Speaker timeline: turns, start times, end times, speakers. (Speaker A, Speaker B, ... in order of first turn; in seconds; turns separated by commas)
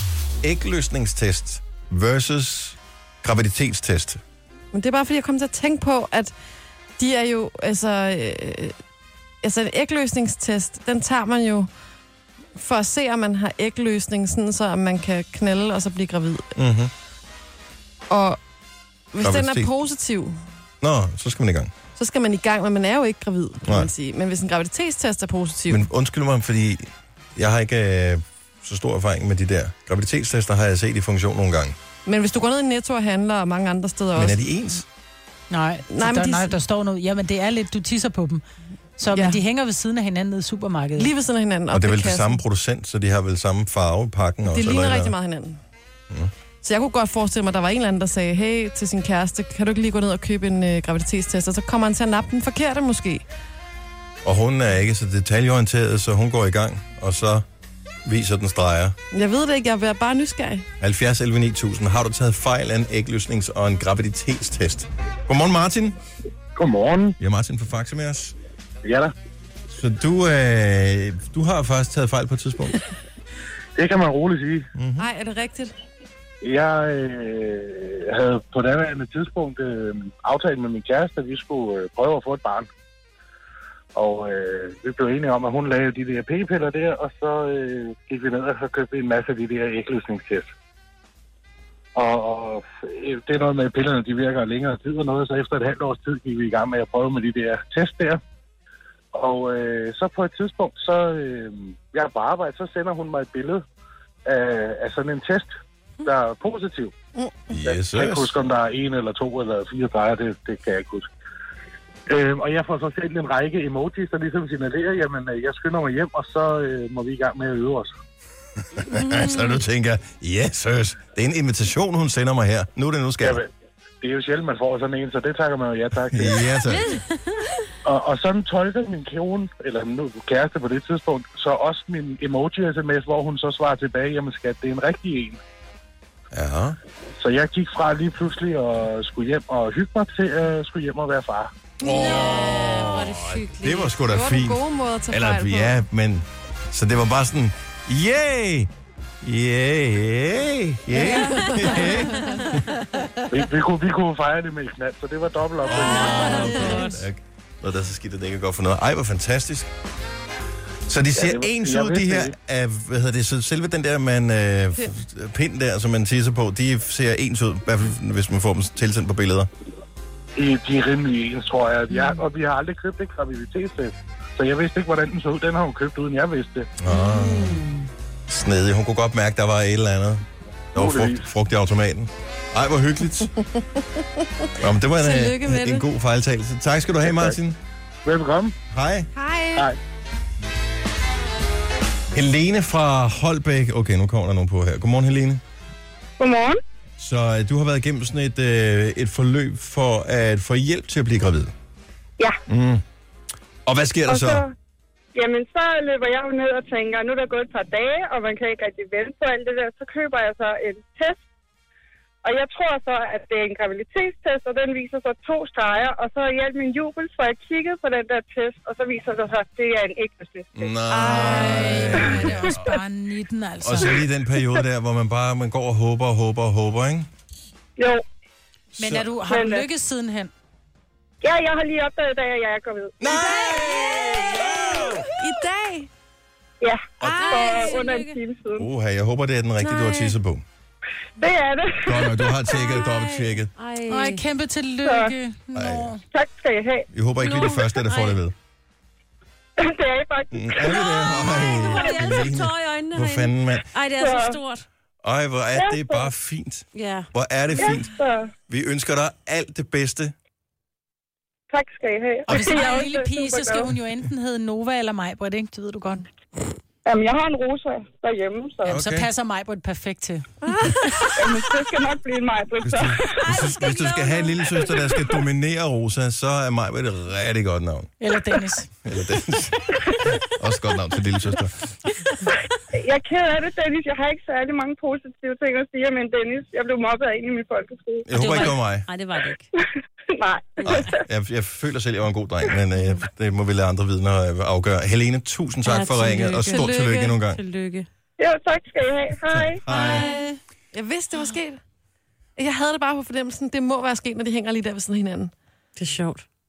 Speaker A: 0.4-4.2, Speaker B: 4.7-6.3, Speaker B: 7.0-8.7, Speaker B: 9.4-11.7, Speaker B: 12.6-16.5, Speaker A: 16.6-16.9, Speaker B: 18.1-18.4, Speaker B: 19.1-20.4, Speaker A: 19.2-19.7, Speaker A: 20.8-21.7, Speaker B: 21.9-25.8, Speaker A: 25.7-31.8, Speaker B: 32.0-34.5, Speaker A: 34.1-34.8, Speaker C: 35.5-38.4, Speaker B: 35.9-36.6, Speaker C: 39.0-41.1, Speaker B: 39.1-39.4, Speaker B: 40.9-42.4, Speaker A: 41.7-45.1, Speaker B: 44.5-45.6, Speaker B: 46.6-53.2, Speaker A: 54.2-57.4, Speaker A: 58.0-58.9, Speaker B: 59.1-60.6, Speaker A: 60.8-66.0, Speaker D: 66.5-67.2, Speaker A: 67.2-68.3, Speaker D: 68.8-69.1, Speaker A: 69.7-72.8, Speaker D: 73.8-74.7, Speaker A: 74.8-75.1, Speaker B: 75.0-75.7, Speaker D: 76.4-82.7, Speaker D: 83.9-90.5, Speaker D: 91.9-98.2, Speaker D: 99.1-103.6, Speaker D: 104.2-105.5, Speaker D: 106.0-106.9, Speaker B: 107.2-107.5, Speaker A: 107.5-108.3, Speaker D: 107.6-111.1, Speaker D: 112.1-117.9, Speaker A: 118.7-123.4, Speaker D: 123.2-123.5, Speaker D: 124.0-126.7, Speaker A: 126.1-127.0, Speaker D: 127.8-135.4, Speaker A: 136.3-136.8, Speaker D: 137.2-141.5, Speaker B: 141.8-142.8, Speaker A: 141.8-148.7, Speaker E: 142.1-143.8, Speaker B: 143.9-145.8, Speaker A: 149.2-152.6, Speaker B: 151.0-151.8, Speaker E: 151.1-151.9, Speaker D: 153.3-156.9, Speaker A: 155.7-159.7, Speaker A: 160.9-169.5, Speaker D: 161.1-162.3, Speaker D: 170.3-176.7, Speaker A: 176.8-177.7, Speaker A: 178.3-180.2, Speaker A: 180.7-183.3, Speaker D: 180.7-181.3, Speaker A: 184.6-187.6, Speaker B: 185.0-185.8, Speaker D: 187.0-187.4, Speaker D: 188.0-188.6, Speaker A: 188.7-189.1, Speaker B: 189.1-189.7, Speaker A: 192.1-195.4, Speaker F: 196.2-196.6, Speaker A: 197.0-201.5, Speaker A: 202.5-202.8, Speaker A: 203.7-204.4, Speaker F: 204.1-204.5, Speaker F: 205.1-211.2, Speaker F: 212.2-220.7, Speaker A: 220.5-222.7, Speaker C: 220.9-224.0, Speaker F: 221.9-222.5, Speaker A: 223.6-227.1, Speaker A: 228.7-229.0, Speaker C: 228.8-230.3, Speaker F: 229.3-229.7, Speaker F: 231.2-233.0, Speaker A: 233.0-235.1, Speaker B: 233.1-233.6, Speaker B: 235.0-235.9, Speaker F: 236.6-238.7, Speaker B: 237.0-237.4, Speaker E: 237.2-238.2, Speaker A: 238.5-240.4, Speaker E: 239.7-240.0, Speaker F: 241.2-242.6, Speaker A: 241.8-243.5, Speaker E: 242.6-244.2, Speaker C: 243.9-246.0, Speaker F: 244.8-245.1, Speaker A: 245.5-245.9, Speaker F: 246.1-246.9, Speaker A: 246.9-248.3, Speaker E: 247.2-248.2, Speaker F: 249.6-250.9, Speaker A: 250.3-253.7, Speaker E: 250.8-254.7, Speaker F: 254.0-254.4, Speaker A: 255.0-257.9, Speaker F: 255.5-256.1, Speaker E: 256.7-257.1, Speaker F: 257.6-258.3, Speaker A: 258.5-260.1, Speaker F: 261.5-263.7, Speaker C: 262.3-266.1, Speaker F: 266.8-268.8, Speaker C: 268.6-270.4, Speaker A: 268.7-269.1, Speaker C: 270.9-271.2, Speaker F: 271.2-273.6, Speaker A: 272.6-277.9, Speaker F: 274.7-275.1, Speaker C: 278.0-278.7, Speaker A: 278.8-281.7, Speaker F: 282.3-288.1, Speaker A: 288.1-288.9, Speaker E: 288.1-289.4, Speaker F: 290.1-291.0, Speaker A: 290.6-297.4, Speaker E: 295.6-296.7, Speaker B: 296.5-297.2, Speaker E: 297.3-297.9, Speaker F: 298.2-299.7, Speaker A: 299.3-300.1, Speaker B: 299.7-301.6, Speaker C: 299.8-300.3, Speaker B: 302.4-305.3, Speaker E: 305.8-306.2